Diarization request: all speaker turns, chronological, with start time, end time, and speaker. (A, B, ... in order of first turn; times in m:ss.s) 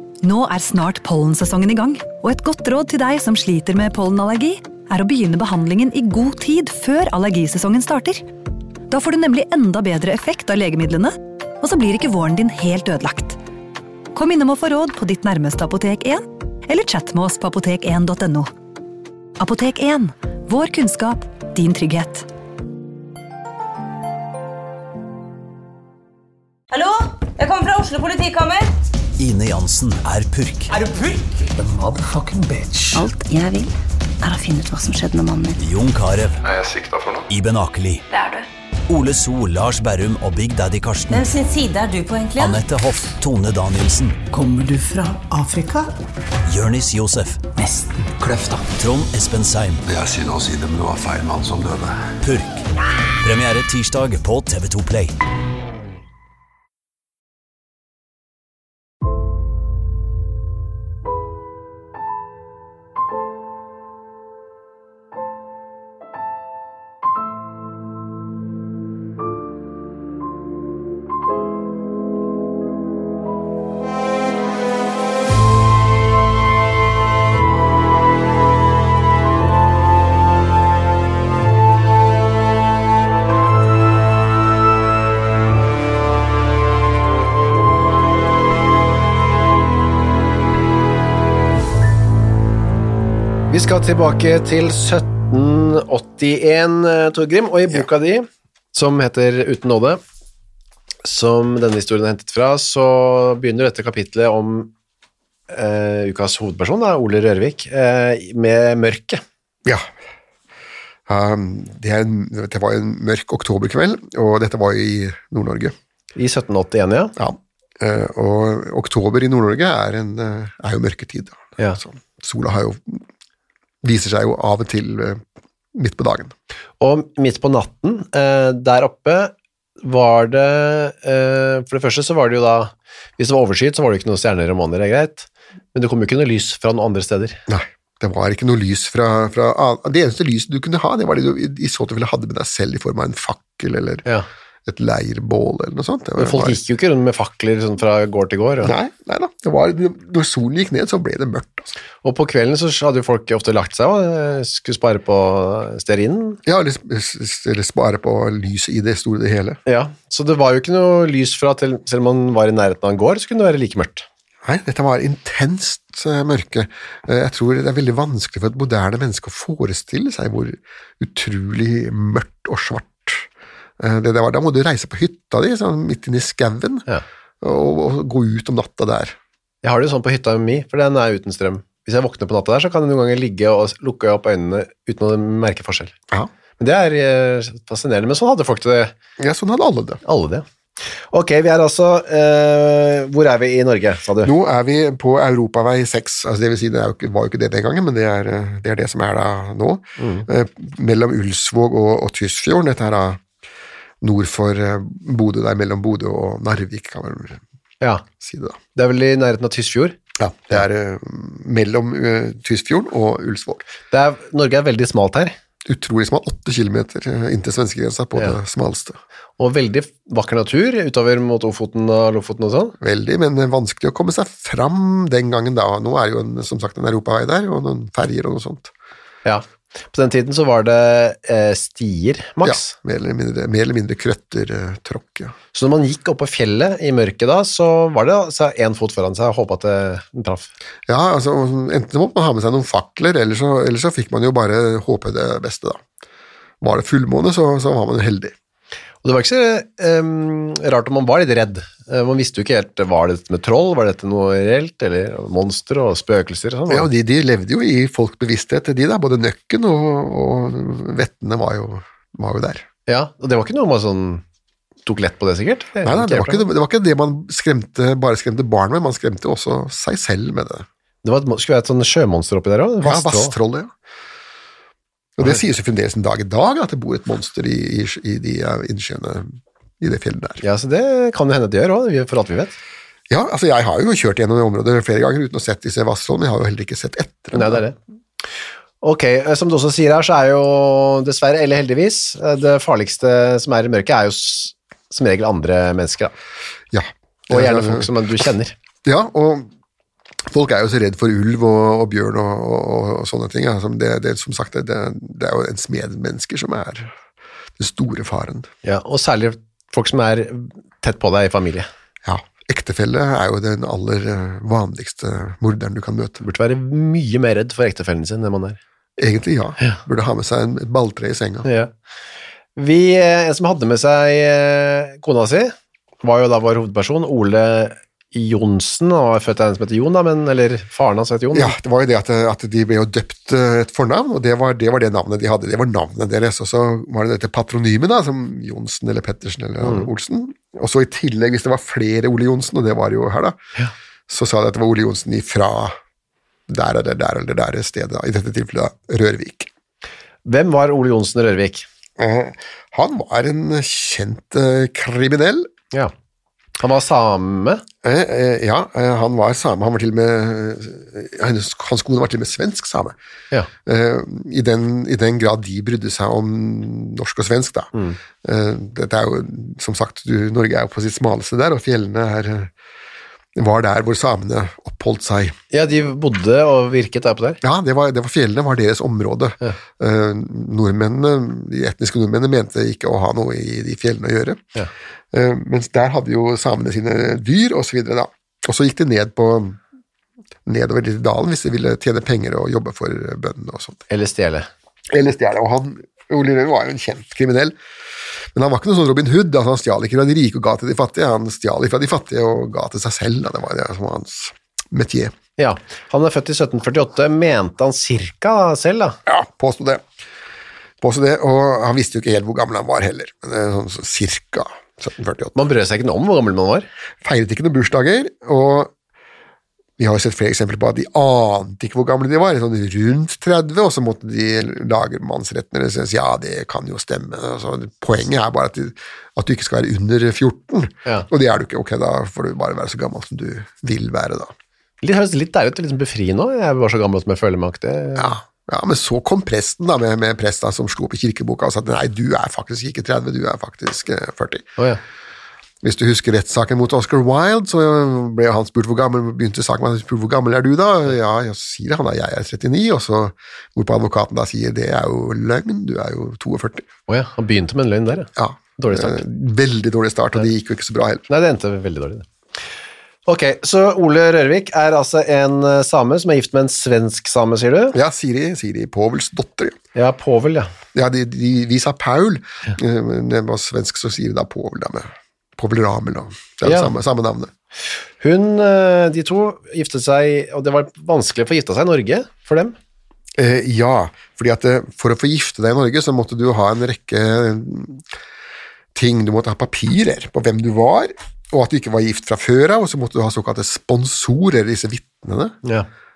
0:00.2-0:08.2 A
0:08.9-0:13.4 A
0:14.1-0:18.5 A
0:19.4-0:22.3 A
0:26.7-0:28.7 B
0:29.2-0:30.7 C
0:30.7-0:31.5 B
0:31.6-0:33.0 D
0:33.0-0:35.6 E
0:35.6-0:36.4 C
0:36.4-0:37.3 F
0:37.3-0:38.0 C
0:38.1-0:38.5 B
0:38.9-0:41.3 C
0:41.1-0:42.6 B
0:42.4-0:44.2 C
0:44.3-0:45.9 D
0:46.5-0:47.5 C
0:47.6-0:48.7 D
0:48.8-0:49.8 C
0:49.9-0:52.1 F
0:52.2-0:52.7 C
0:53.2-0:55.1 C
1:33.5-1:40.0 G
1:41.0-1:44.7 G
1:45.5-1:49.2 G
1:49.6-1:49.9 H
1:51.1-1:55.8 H
1:56.2-1:57.2 G
1:57.2-2:03.0 H
2:03.8-2:05.2 H
2:05.7-2:06.3 H
2:06.8-2:17.4 G
2:17.5-2:24.0 H
2:24.7-2:26.6 H
2:26.2-2:28.7 G
2:28.6-2:31.7 H
2:32.0-2:36.4 G
2:36.4-2:39.6 H
2:39.7-2:44.1 G
2:44.4-2:53.3 H
2:53.8-2:56.9 H
2:57.4-2:59.2 H
2:59.6-3:06.0 G
3:06.6-3:08.9 G
3:09.2-3:10.0 H
3:10.0-3:14.3 G
3:14.2-3:23.2 H
3:20.0-3:20.3 G
3:24.0-3:27.4 H
3:28.2-3:28.6 H
3:28.8-3:30.0 G
3:30.2-3:33.7 H
3:33.9-3:35.4 G
3:35.6-3:39.0 H
3:39.4-3:42.8 G
3:42.8-3:48.7 H
3:49.2-3:52.8 G
3:52.4-3:55.4 H
3:55.5-4:00.5 G
4:00.9-4:05.8 H
4:06.6-4:08.3 H
4:09.0-4:16.9 G
4:16.7-4:22.6 H
4:22.9-4:24.2 G
4:24.9-4:26.5 G
4:25.8-4:30.7 H
4:31.0-4:33.4 G
4:32.8-4:33.7 H
4:35.2-4:40.4 H
4:40.4-4:42.6 G
4:43.1-4:47.6 H
4:47.3-4:47.8 G
4:48.8-4:56.1 G
4:56.7-4:58.0 H
4:57.3-4:58.6 G
4:58.8-4:59.5 H
5:00.3-5:06.9 H
5:07.6-5:08.5 H
5:08.6-5:11.7 G
5:12.0-5:16.2 H
5:16.2-5:18.6 G
5:19.0-5:21.5 H
5:21.4-5:21.7 G
5:22.6-5:31.6 G
5:31.3-5:43.4 H
5:39.6-5:39.9 G
5:44.1-5:45.8 H
5:46.5-5:49.5 H
5:50.2-5:51.7 G
5:52.0-5:55.5 H
5:56.6-5:57.6 G
5:57.8-6:03.0 H
6:03.6-6:07.7 H
6:08.2-6:12.5 H
6:13.4-6:15.4 H
6:15.5-6:17.4 G
6:17.4-6:24.4 H
6:25.1-6:29.6 H
6:30.5-6:33.8 H
6:33.9-6:34.5 G
6:34.9-6:37.6 H
6:38.3-6:45.2 H
6:45.4-6:49.0 G
6:49.1-6:49.8 H
6:50.8-6:55.4 H
6:55.4-6:56.7 G
6:57.0-6:58.7 H
6:59.8-7:14.3 H
7:14.8-7:18.2 G
7:18.0-7:24.5 H
7:25.6-7:36.7 H
7:36.9-7:39.0 G
7:38.2-7:41.1 H
7:41.1-7:42.1 G
7:43.1-7:47.8 G
7:47.7-7:49.6 H
7:49.8-7:50.5 G
7:50.7-7:57.3 H
7:56.4-7:56.7 G
7:58.0-8:02.6 G
8:03.2-8:07.8 H
8:08.8-8:15.4 H